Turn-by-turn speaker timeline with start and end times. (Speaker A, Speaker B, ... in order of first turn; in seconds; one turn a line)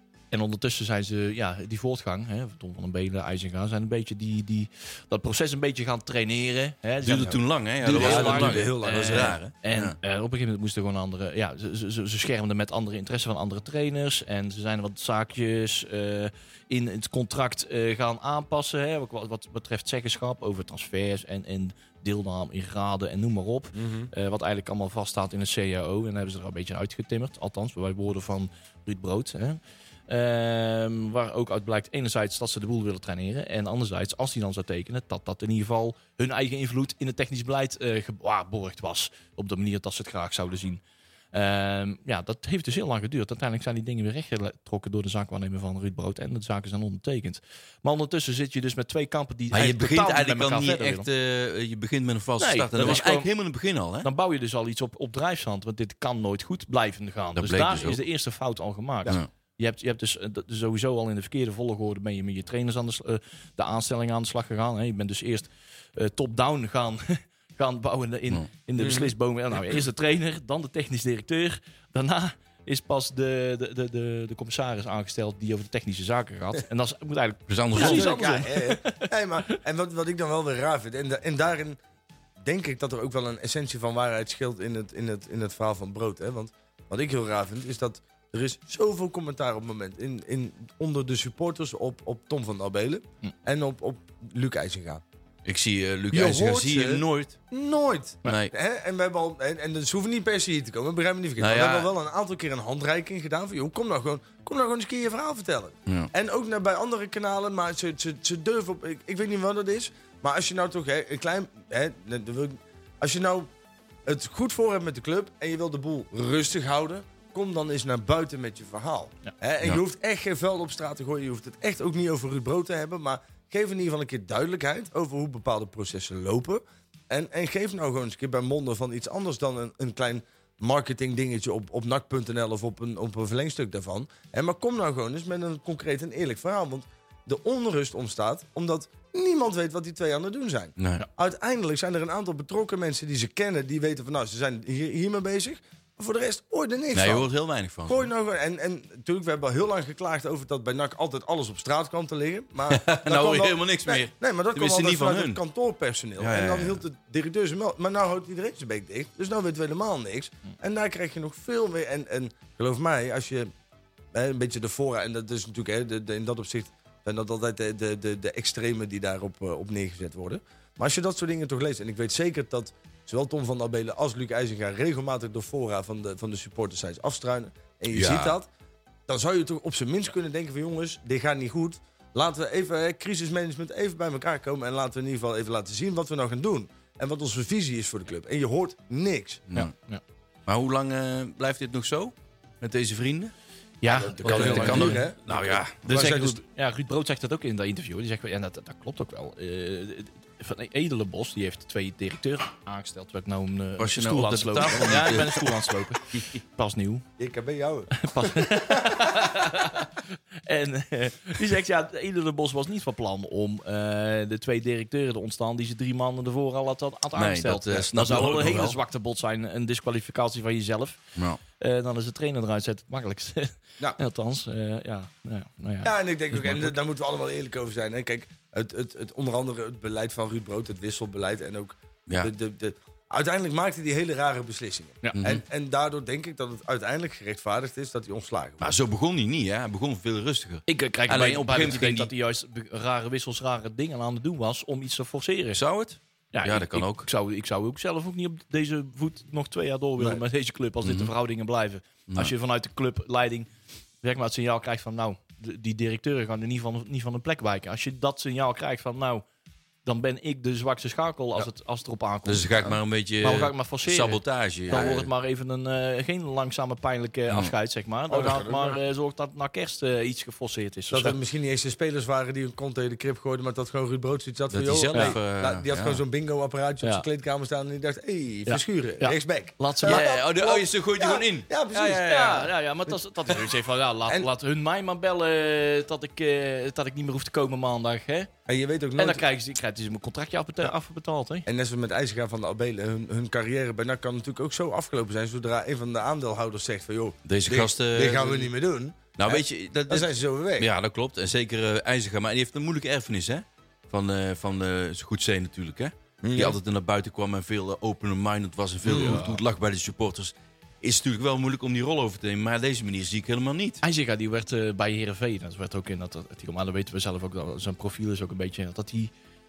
Speaker A: 0.3-40.8
Speaker B: 7.0-9.9
Speaker C: 7.8-9.4
Speaker C: 23.7-24.1
Speaker A: 41.3-51.1
Speaker B: 49.5-54.1
Speaker A: 52.4-53.3
Speaker A: 54.0-79.0
Speaker B: 57.4-58.0
Speaker C: 68.8-69.1
Speaker B: 77.5-78.1
Speaker C: 77.7-81.8
Speaker C: 82.4-95.0
Speaker B: 95.4-97.4
Speaker C: 96.1-113.5
Speaker B: 98.2-98.5
Speaker B: 101.4-101.9
Speaker C: 114.0-147.3
Speaker B: 140.8-141.0
Speaker B: 146.9-148.1
Speaker C: 147.8-163.5
Speaker B: 152.7-155.4
Speaker B: 156.2-156.8
Speaker C: 164.1-178.5
Speaker B: 177.9-178.3
Speaker C: 179.1-189.4
Speaker A: 189.5-190.0
Speaker B: 190.5-193.3
Speaker A: 193.8-195.1
Speaker C: 193.8-196.4
Speaker B: 194.2-195.8
Speaker A: 195.8-207.0
Speaker B: 203.8-205.5
Speaker C: 207.2-208.9
Speaker A: 207.9-221.0
Speaker B: 217.2-218.8
Speaker A: 221.6-226.5
Speaker C: 225.8-238.7
Speaker B: 235.1-235.4
Speaker B: 238.6-242.1
Speaker A: 240.7-245.6
Speaker B: 245.5-247.1
Speaker A: 246.3-253.5
Speaker B: 250.8-251.1
Speaker A: 254.0-259.2
Speaker A: 259.8-271.2
Speaker B: 262.2-265.1
Speaker C: 268.1-268.8
Speaker C: 270.9-283.3
Speaker B: 274.5-276.0
Speaker A: 278.5-280.1
Speaker B: 279.8-281.5
Speaker A: 281.7-288.3
Speaker C: 288.5-289.2
Speaker A: 289.0-291.5
Speaker C: 291.4-300.7
Speaker B: 297.2-298.5
Speaker B: 299.2-313.8
Speaker C: 306.2-306.6
Speaker C: 308.8-309.3
Speaker A: 308.9-309.4
Speaker A: 313.8-319.1